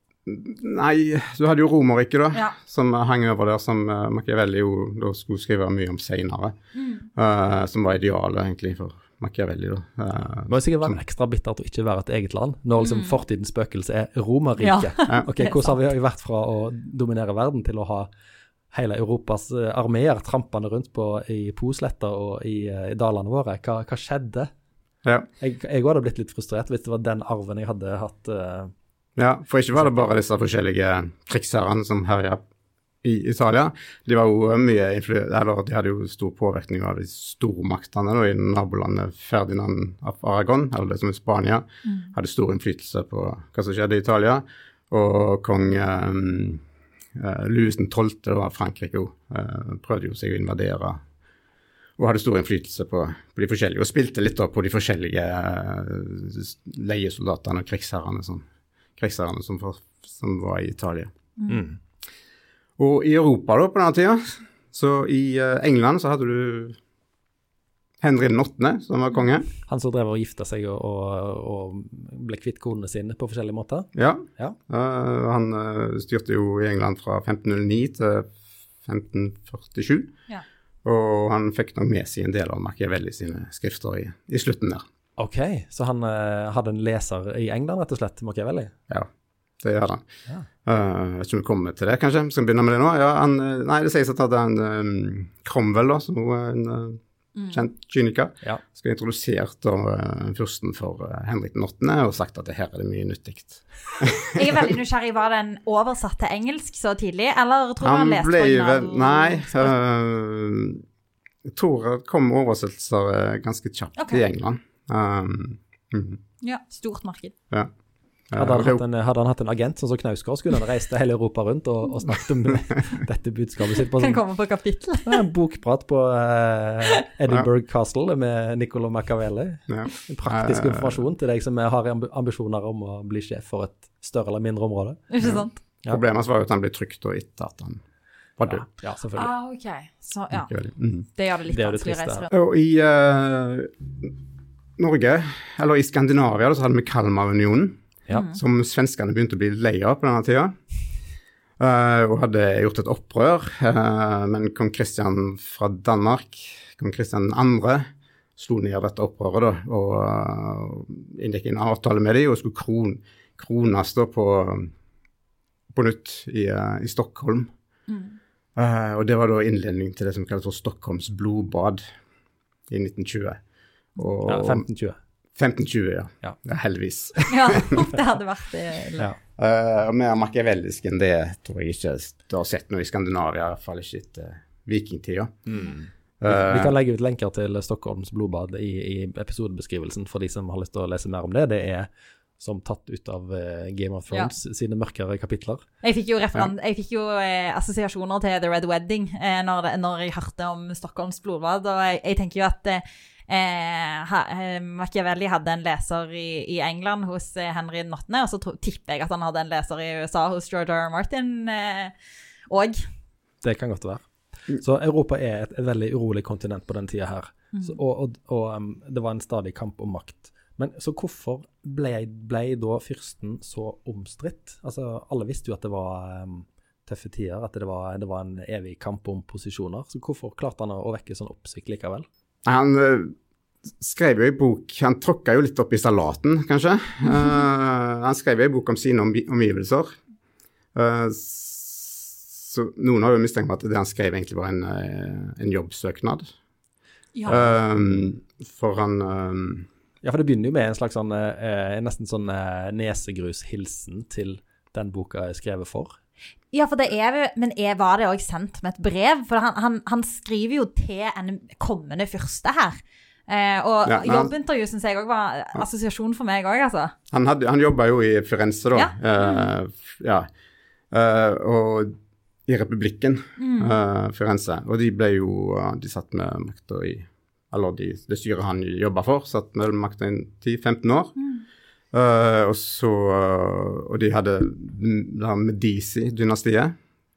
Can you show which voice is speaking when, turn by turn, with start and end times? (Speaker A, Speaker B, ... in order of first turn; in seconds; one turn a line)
Speaker A: 0.2-6.5
Speaker B: 6.7-7.1
Speaker A: 7.2-11.0
Speaker C: 10.5-18.1
Speaker B: 12.8-13.2
Speaker B: 14.6-15.8
Speaker C: 18.7-24.5
Speaker C: 25.4-28.7
Speaker A: 29.2-32.4
Speaker A: 33.0-46.6
Speaker B: 41.8-42.1
Speaker A: 47.1-51.0
Speaker A: 52.0-58.5
Speaker A: 59.0-61.1
Speaker B: 61.4-61.6
Speaker C: 61.5-61.8
Speaker A: 62.8-66.8
Speaker A: 68.0-69.5
Speaker C: 69.7-74.6
Speaker A: 73.9-80.1
Speaker A: 80.8-84.8
Speaker C: 85.2-88.7
Speaker A: 89.6-90.0
Speaker A: 90.6-104.7
Speaker B: 97.3-97.6
Speaker B: 104.3-109.7
Speaker A: 107.8-110.8
Speaker A: 111.5-116.2
Speaker B: 114.0-114.2
Speaker B: 116.4-117.3
Speaker A: 118.3-118.8
Speaker C: 118.3-124.2
Speaker B: 124.0-125.2
Speaker C: 125.0-135.0
Speaker A: 129.7-131.0
Speaker B: 135.1-135.6
Speaker A: 135.2-137.8
Speaker A: 138.4-138.7
Speaker C: 138.5-139.3
Speaker B: 139.2-142.3
Speaker A: 140.3-141.1
Speaker C: 141.5-142.2
Speaker A: 142.3-144.2
Speaker A: 144.8-150.6
Speaker B: 148.1-148.4
Speaker A: 151.6-157.8
Speaker A: 158.4-164.7
Speaker A: 165.7-167.5
Speaker B: 167.9-168.2
Speaker A: 168.6-171.8
Speaker A: 172.7-173.4
Speaker A: 173.9-174.6
Speaker C: 174.2-175.0
Speaker A: 175.3-177.8
Speaker B: 177.3-179.1
Speaker A: 179.4-185.3
Speaker C: 185.5-191.9
Speaker A: 186.2-186.7
Speaker C: 192.4-195.6
Speaker B: 195.8-211.9
Speaker B: 212.5-212.8
Speaker C: 213.4-232.1
Speaker A: 232.4-233.1
Speaker A: 233.8-240.0
Speaker A: 240.7-246.3
Speaker B: 247.1-247.4
Speaker A: 247.3-249.7
Speaker C: 247.3-247.5
Speaker C: 250.0-256.0
Speaker B: 256.5-266.9
Speaker A: 263.8-264.3
Speaker A: 267.1-270.3
Speaker B: 268.7-269.5
Speaker A: 270.9-271.9
Speaker A: 272.5-281.1
Speaker B: 273.4-273.8
Speaker B: 281.2-281.4
Speaker A: 281.9-286.7